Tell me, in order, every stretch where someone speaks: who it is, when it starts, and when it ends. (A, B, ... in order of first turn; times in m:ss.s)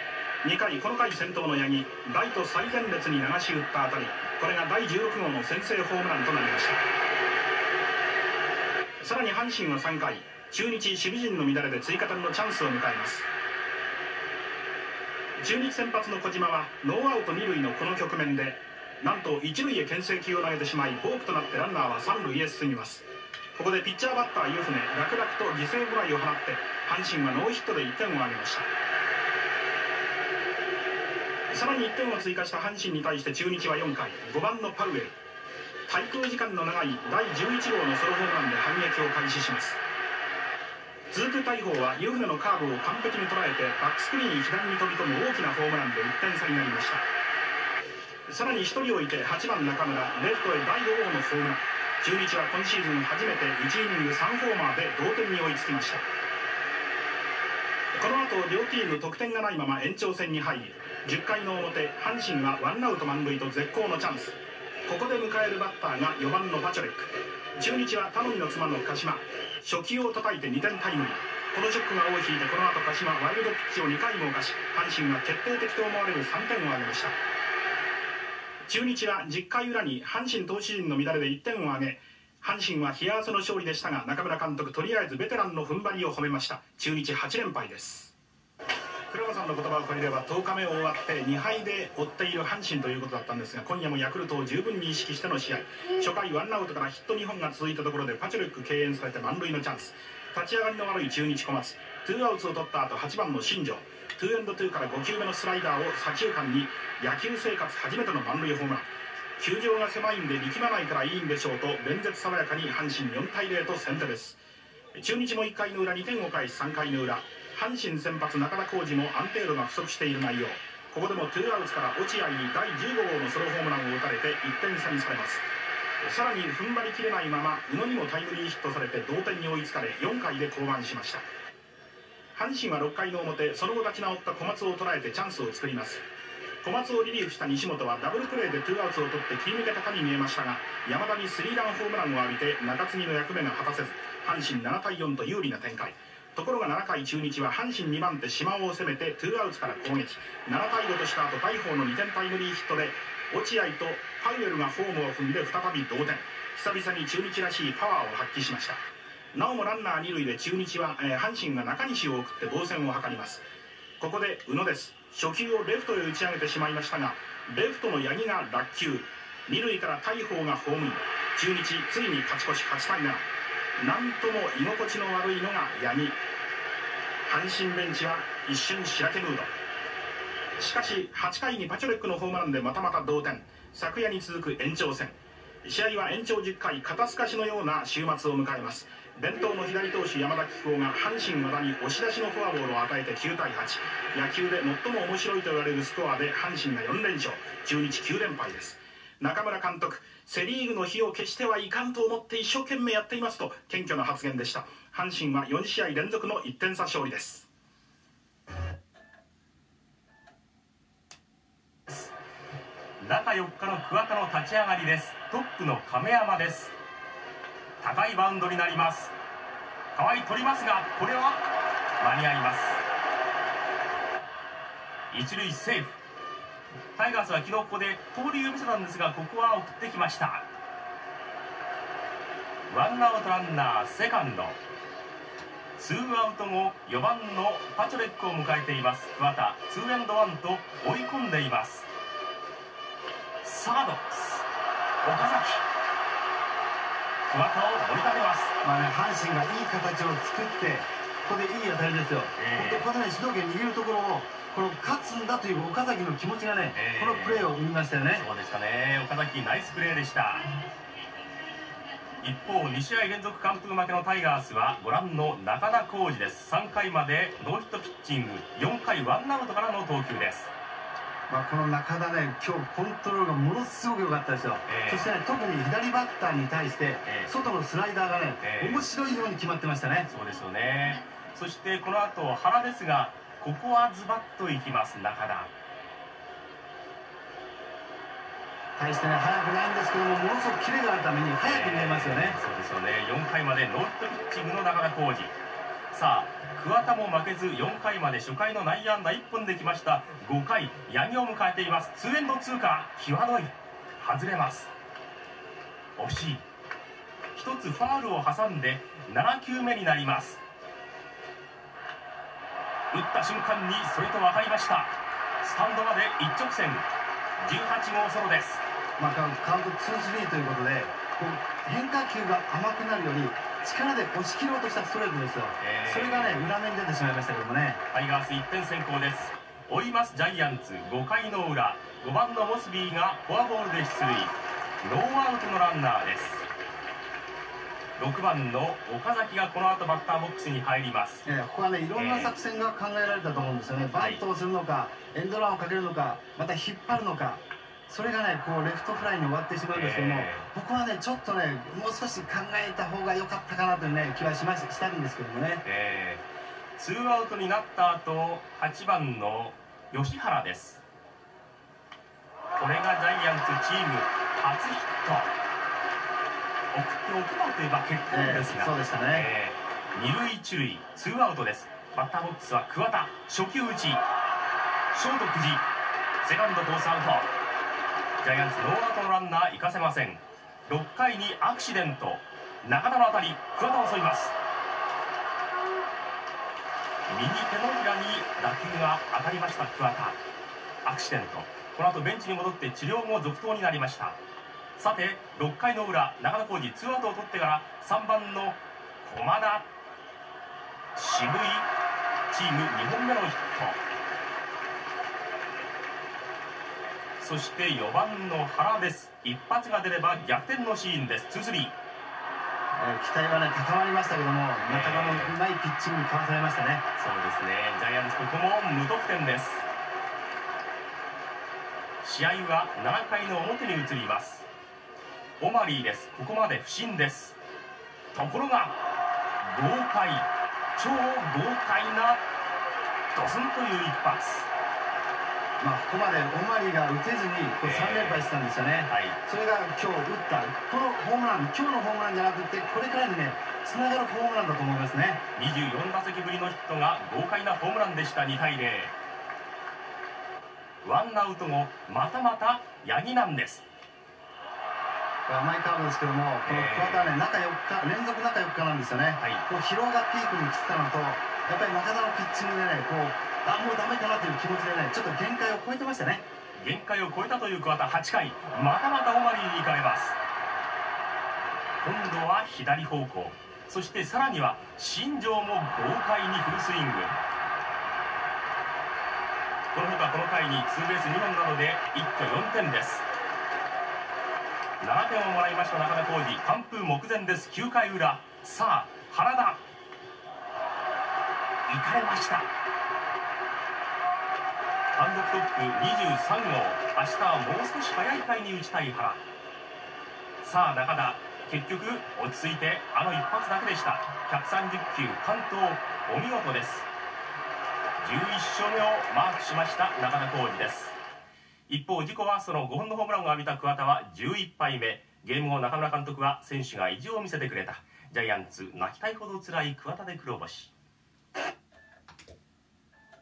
0:00.4-0:06.8 A
0:09.0-0:13.3 A
0:15.4-0:23.0 A
0:23.6-0:28.7 A
0:31.5-0:35.2 A
0:35.9-0:39.8 A
0:41.1-0:47.0 A
0:48.3-0:56.0 A
0:57.9-1:17.2 A
1:18.7-1:28.1 A
1:29.1-1:54.4 A
1:54.9-2:05.4 A
2:06.0-2:11.2 A
2:12.3-2:16.0 A
2:16.6-2:38.8 A
2:39.3-2:43.4 A
2:44.0-2:53.2 A
2:53.8-2:56.2 A
2:57.2-2:59.5 A
3:00.6-3:27.5 A
3:33.0-3:36.7 B
3:37.8-3:39.1 B
3:39.9-3:41.4 B
3:42.0-3:42.8 B
3:45.1-3:46.0 B
3:46.9-3:50.4 B
3:52.7-3:54.6 B
3:55.8-4:01.9 B
4:03.4-4:04.4 B
4:05.0-4:05.6 B
4:07.2-4:08.5 B
4:08.6-4:18.2 C
4:12.4-4:12.9 B
4:16.7-4:17.5 B
4:18.1-4:20.5 B
4:22.2-4:30.5 B
4:31.3-4:40.1 C
4:34.6-4:35.1 B
4:37.0-4:37.3 B
4:38.4-4:38.8 B
4:40.1-4:45.5 B
4:48.8-4:52.4 C
4:51.4-4:55.3 B
4:55.9-5:04.7 B
5:06.0-5:06.4 B
5:07.3-5:10.4 B
5:12.9-5:16.9 B
5:17.4-5:18.6 B
5:19.0-5:27.8 C
5:25.6-5:26.5 B
5:27.9-5:36.4 B
5:38.0-5:41.2 B
5:41.2-5:55.6 C
5:41.9-5:42.4 B
5:44.0-5:44.2 B
5:49.7-5:50.5 B
5:55.6-5:56.2 B
5:56.8-6:00.8 B
6:02.6-6:05.3 B
6:06.7-6:14.0 B
6:08.1-6:09.3 C
6:14.9-6:15.6 B
6:16.2-6:17.3 B
6:18.2-6:24.3 B
6:27.1-6:30.2 B
6:30.8-6:34.2 B
6:34.8-6:39.7 B
6:40.9-6:41.7 B
6:42.3-6:43.8 B
6:47.2-6:51.7 B
6:52.8-6:56.8 C
6:54.6-6:55.4 B
6:57.0-6:59.6 B
7:02.0-7:04.5 B
7:05.4-7:07.4 B
7:08.1-7:08.8 B
7:09.4-7:12.2 B
7:13.1-7:14.5 B
7:15.6-7:25.2 C
7:17.6-7:18.3 B
7:18.8-7:19.2 B
7:25.3-7:28.9 B
7:30.8-7:33.6 B
7:35.3-7:46.2 C
7:36.4-7:37.2 B
7:39.2-7:39.4 B
7:46.6-7:50.2 B
7:51.8-7:57.2 B
7:59.7-8:03.0 B
8:04.8-8:09.6 B
8:11.7-8:12.5 B
8:14.9-8:19.2 B
8:20.4-8:26.9 B
8:28.0-8:31.0 B
8:31.7-8:40.7 B